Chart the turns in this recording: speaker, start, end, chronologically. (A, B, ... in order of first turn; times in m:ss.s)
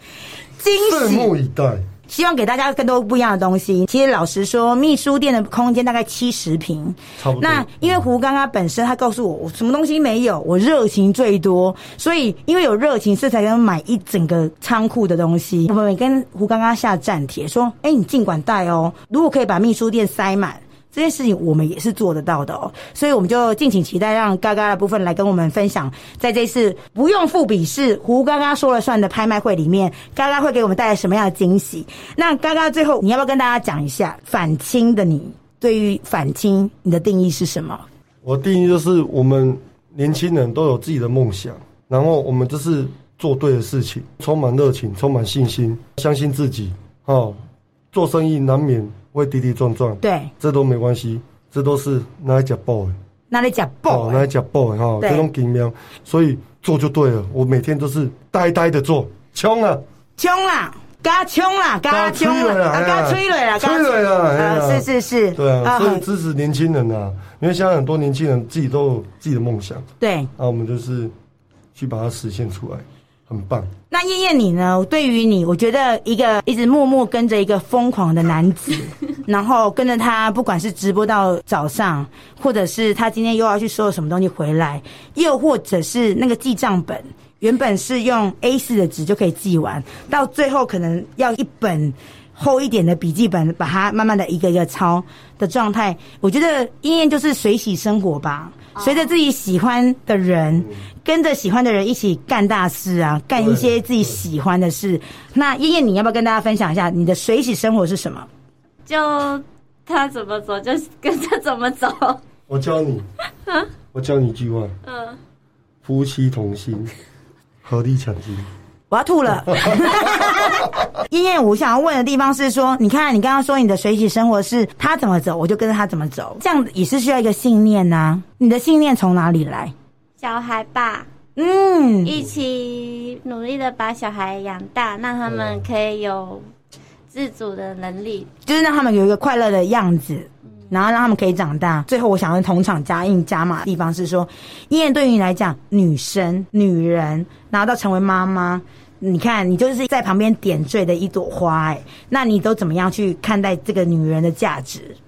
0:00.6-0:01.3 A
0:00.8-0:01.8 B
0:02.1-0:37.8 A
0:07.2-0:08.0 B
0:38.2-0:47.4 B
0:47.9-0:53.0 B
0:50.0-0:50.3 A
0:53.3-0:54.2 A
0:53.9-0:59.8 B
0:55.0-0:55.3 A
1:00.2-1:06.0 A
1:01.9-1:09.8 B
1:10.0-1:10.3 A
1:10.4-1:11.1 B
1:11.7-1:13.7 B
1:13.9-1:48.3 A
1:43.4-1:44.1 B
1:48.8-1:52.2 C
1:52.5-1:53.0 B
1:53.9-1:54.7 B
1:54.8-1:55.2 C
1:55.8-1:56.9 B
1:57.6-1:58.5 B
1:58.9-2:09.7 A
1:59.5-2:00.5 B
2:10.2-2:11.1 C
2:11.4-2:12.2 A
2:12.0-2:16.4 C
2:15.3-2:15.6 B
2:17.1-2:18.3 C
2:18.4-2:35.0 A